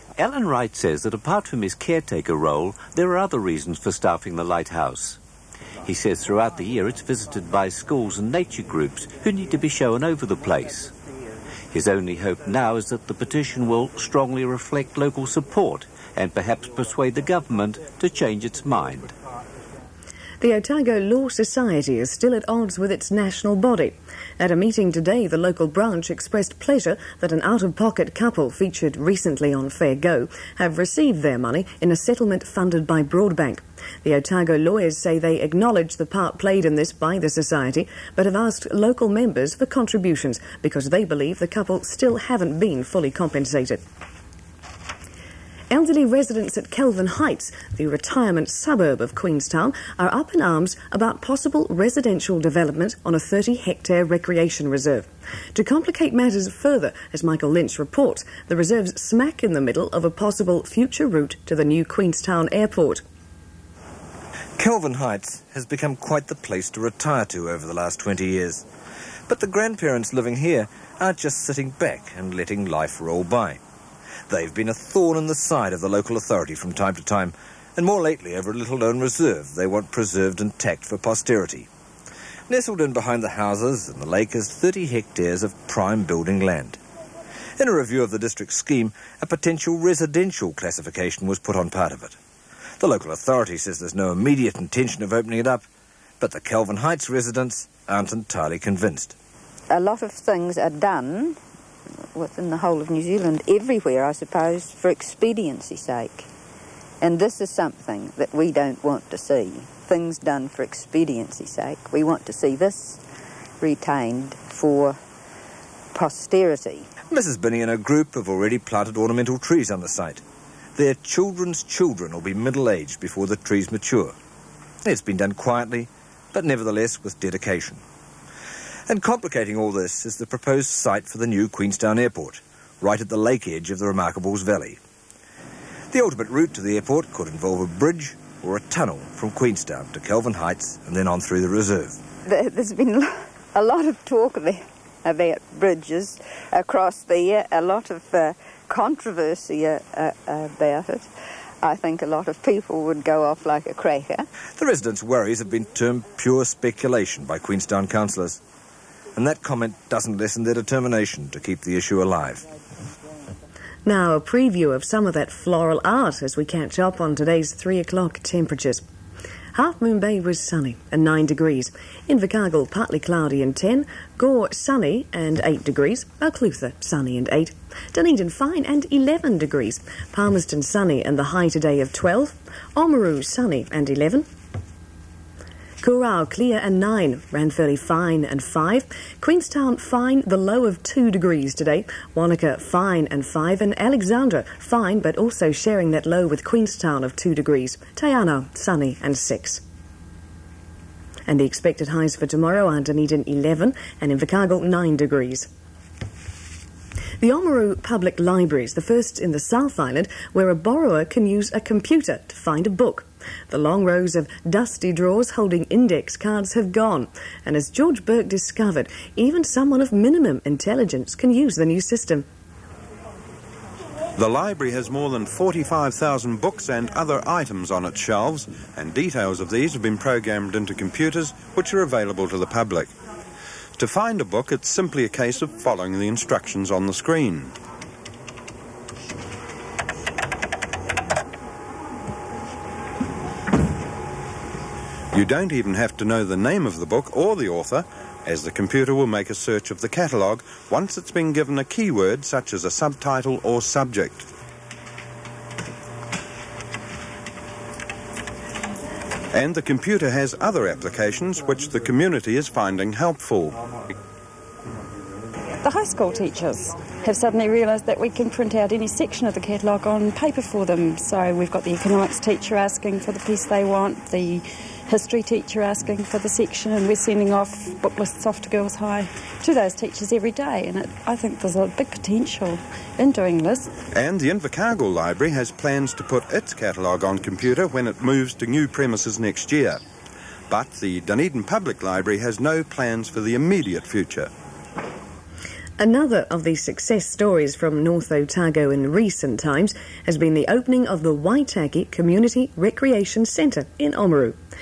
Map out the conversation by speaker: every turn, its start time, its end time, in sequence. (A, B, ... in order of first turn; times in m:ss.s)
0:00.2-0:05.2 A
0:05.8-0:10.9 A
0:11.7-0:19.1 A
0:20.4-0:43.8 B
0:45.7-1:03.0 B
1:04.6-1:08.6 C
1:09.3-1:13.6 C
1:14.3-1:21.7 C
1:22.5-1:26.8 C
1:27.6-1:32.2 C
1:32.8-1:35.7 C
1:36.2-1:39.2 C
1:39.7-1:41.4 D
1:42.2-1:46.3 D
1:47.0-1:53.0 D
1:53.6-1:55.0 D
1:56.0-1:56.8 D
1:57.1-2:00.2 C
2:00.8-2:04.2 C
2:04.8-2:07.8 C
2:08.9-2:14.8 C
2:15.9-2:22.0 C
2:22.3-2:31.1 D
2:31.6-2:34.2 D
2:34.6-2:38.4 C
2:39.2-2:42.4 C
2:43.9-2:48.8 B
2:49.6-3:04.3 B
3:05.8-3:19.6 B
3:21.3-3:25.5 B
3:27.2-3:42.3 B
3:44.2-3:52.9 E
3:53.8-3:57.5 E
4:05.1-4:14.3 E
4:19.3-4:23.6 E
4:25.6-4:43.7 F
4:43.9-4:49.8 E
4:50.5-4:54.3 E
4:55.8-5:04.4 B